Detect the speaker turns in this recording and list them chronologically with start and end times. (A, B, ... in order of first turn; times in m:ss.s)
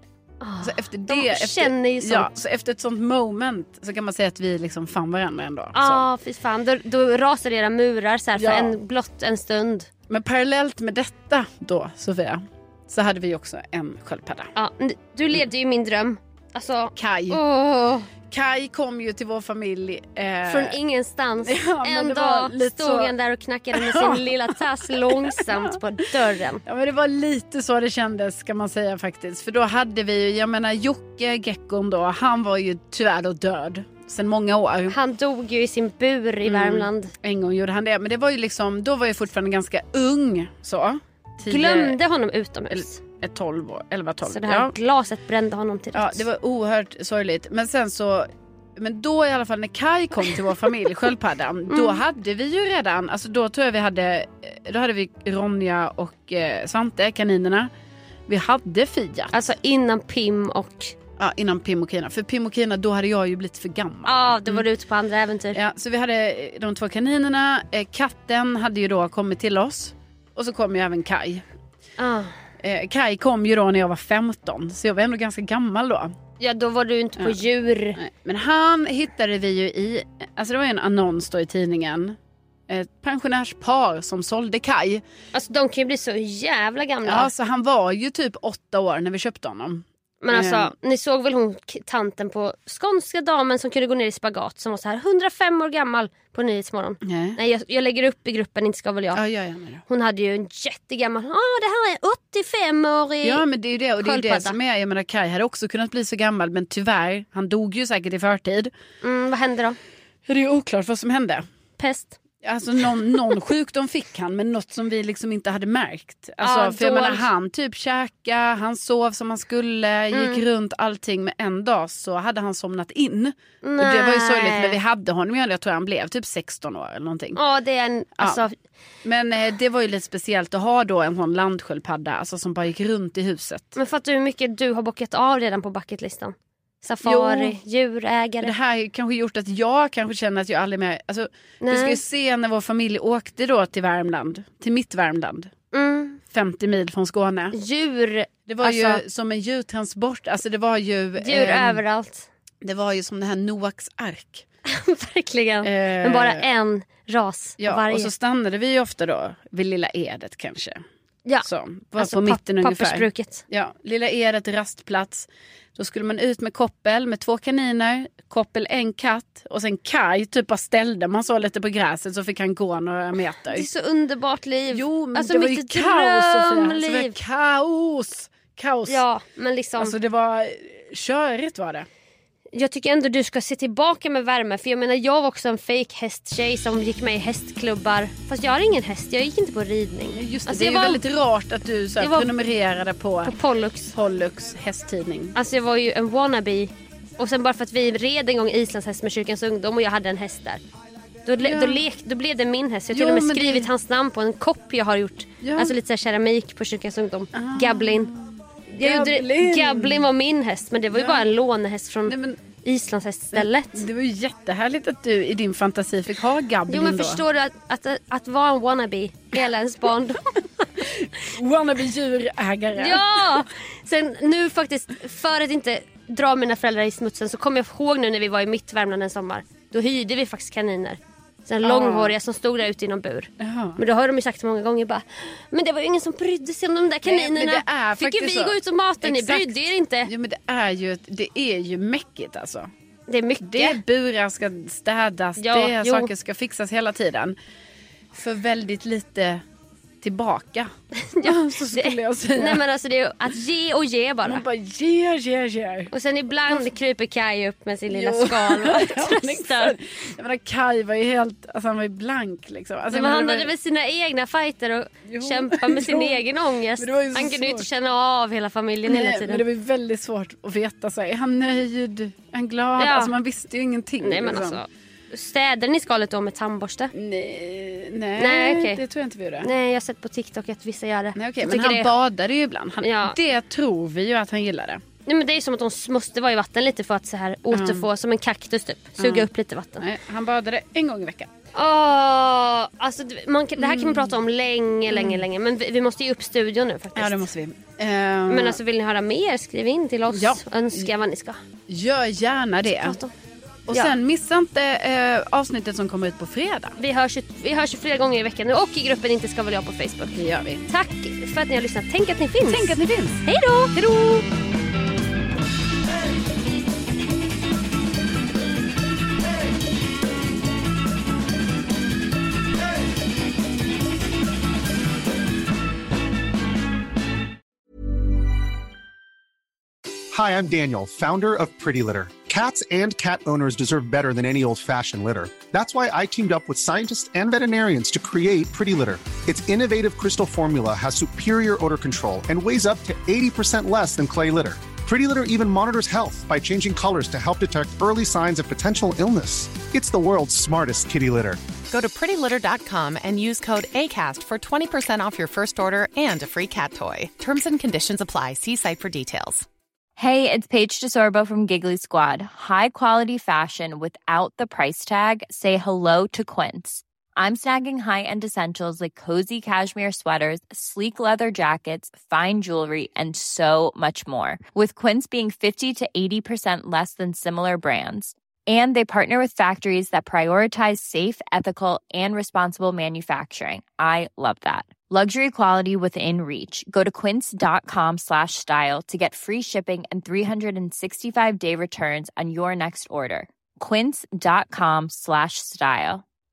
0:00.4-0:02.3 A
0:00.6-0:06.1 B
0:05.7-0:09.9 A
0:08.3-0:08.8 B
0:10.1-0:14.5 B
0:14.5-0:18.1 A
0:17.0-0:17.4 B
0:18.2-0:20.8 B
0:20.4-0:26.6 A
0:21.4-0:23.1 B
0:23.7-0:25.7 B
0:26.6-0:35.0 B
0:34.9-0:37.1 A
0:36.4-0:42.0 B
0:41.4-0:43.0 A
0:42.7-0:44.7 B
0:44.2-0:46.2 A
0:45.9-0:57.7 B
0:51.7-0:52.0 A
0:58.3-0:59.4 B
0:59.3-1:01.0 A
1:01.2-1:04.6 B
1:04.0-1:05.6 A
1:05.5-1:11.4 B
1:12.0-1:12.3 A
1:12.6-1:16.2 B
1:16.4-1:18.0 A
1:17.2-1:17.4 B
1:18.0-1:22.2 B
1:22.7-1:25.0 B
1:25.3-1:27.3 A
1:27.0-1:30.7 B
1:30.2-1:39.2 A
1:37.0-1:37.4 B
1:39.1-1:39.8 B
1:39.9-1:44.6 A
1:43.2-1:48.7 B
1:49.0-1:49.8 A
1:50.3-1:51.4 B
1:51.8-1:52.2 A
1:52.4-2:07.4 B
1:56.4-1:57.3 A
2:00.1-2:00.4 A
2:03.6-2:04.8 A
2:07.3-2:08.5 A
2:08.2-2:08.4 B
2:09.0-2:13.7 B
2:13.7-2:18.6 A
2:17.0-2:17.6 B
2:18.4-2:25.5 B
2:21.6-2:22.0 A
2:25.7-2:26.2 A
2:26.3-2:27.5 B
2:27.5-2:29.0 A
2:28.4-2:31.8 B
2:31.2-2:32.3 A
2:32.6-2:34.4 B
2:34.7-2:38.1 A
2:35.6-2:36.4 B
2:37.6-2:40.8 B
2:41.2-2:43.4 A
2:41.4-2:53.6 B
2:53.4-2:57.2 A
2:54.7-2:59.0 B
2:58.9-2:59.9 A
2:59.8-3:01.9 B
3:02.6-3:11.0 A
3:10.1-3:13.3 B
3:12.0-3:12.4 A
3:13.2-3:14.0 A
3:13.9-3:15.3 B
3:15.3-3:20.6 A
3:21.2-3:28.1 A
3:21.4-3:21.8 B
3:22.9-3:23.7 B
3:25.4-3:25.7 B
3:27.3-3:30.1 B
3:28.7-3:33.8 A
3:30.9-3:31.3 B
3:32.0-3:32.5 B
3:33.3-3:37.2 B
3:36.7-3:40.8 A
3:40.8-3:43.4 B
3:42.7-4:00.1 A
3:51.6-3:52.2 B
3:53.4-3:53.8 B
3:57.0-4:02.7 B
4:03.1-4:03.8 A
4:03.4-4:07.4 B
4:05.4-4:06.1 A
4:08.1-4:09.4 B
4:10.0-4:10.7 B
4:11.0-4:14.4 A
4:11.2-4:12.6 B
4:14.2-4:15.9 B
4:15.9-4:19.8 A
4:17.9-4:23.5 B
4:22.9-4:29.4 A
4:25.1-4:26.2 B
4:26.8-4:27.7 B
4:28.8-4:34.6 B
4:32.8-4:33.2 A
4:34.0-4:36.9 A
4:37.0-4:39.5 B
4:38.2-4:38.8 A
4:39.4-4:42.0 A
4:41.1-4:44.8 B
4:42.8-4:43.2 A
4:45.0-4:49.9 A
4:47.5-4:47.9 B
4:49.0-4:49.3 B
4:49.8-4:51.3 B
4:51.6-4:57.3 A
4:53.6-4:54.2 B
4:54.9-4:55.2 B
4:56.9-4:58.6 B
4:58.3-5:01.4 A
5:00.1-5:00.9 B
5:01.7-5:03.0 B
5:02.7-5:03.1 A
5:03.7-5:06.8 B
5:03.7-5:04.0 A
5:06.8-5:13.8 A
5:10.1-5:10.6 B
5:12.4-5:13.2 B
5:13.8-5:14.2 B
5:30.1-5:51.4 C
5:51.7-5:59.4 D
6:00.0-6:36.0 E